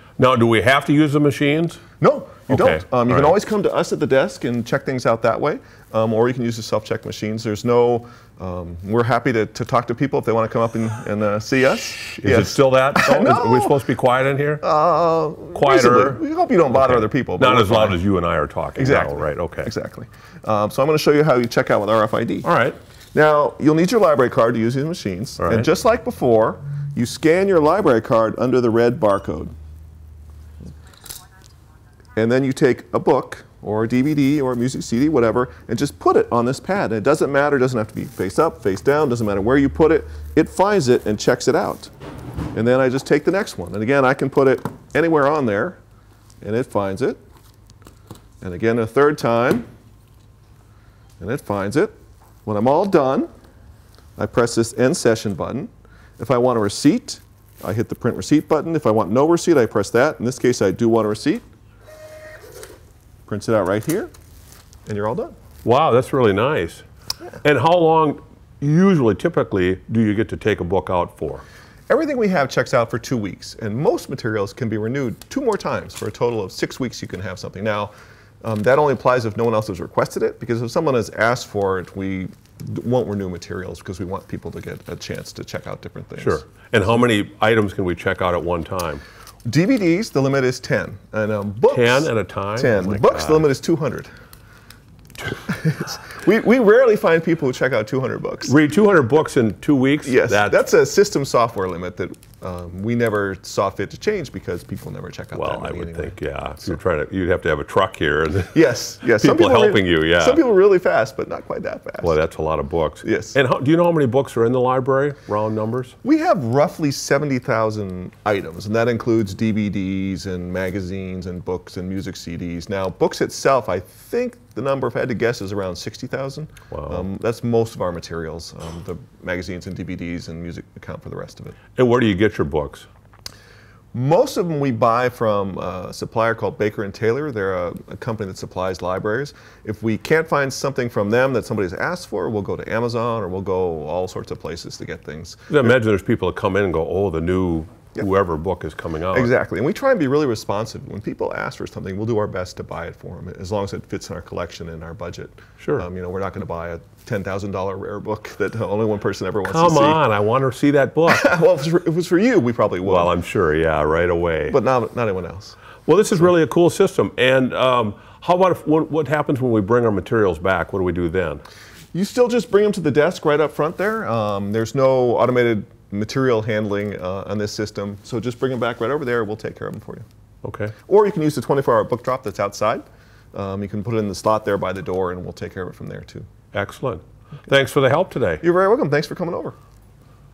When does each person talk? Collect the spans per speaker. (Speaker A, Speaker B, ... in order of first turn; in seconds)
Speaker A: 0.2-1.8, 2.5-3.3, 12.2-14.6, 15.5-16.2, 16.7-19.7, 22.4-22.8, 25.4-25.7, 65.6-66.8, 67.4-71.4, 86.2-89.0, 91.7-93.5, 98.5-100.6, 105.3-108.6, 109.2-110.4, 112.0-116.0, 126.7-127.1, 131.8-132.9, 145.5-149.3, 159.4-161.3, 162.8-164.6, 165.9-171.4, 180.4-180.7, 186.5-188.4
Speaker B: 2.0-13.8, 14.6-18.0, 18.8-22.5, 23.1-29.5, 32.2-41.9, 42.5-45.8, 46.4-47.2, 48.4-49.7, 51.2-51.9, 52.5-53.3, 54.2-61.5, 63.3-64.1, 64.9-65.3, 71.9-77.9, 78.4-86.4, 89.5-94.1, 95.5-98.6, 100.0-106.7, 108.5-112.2, 113.0-113.4, 116.0-131.6, 133.9-145.8, 149.1-160.0, 161.1-163.1, 164.5-165.6, 171.9-180.1, 180.9-186.3, 188.4-189.6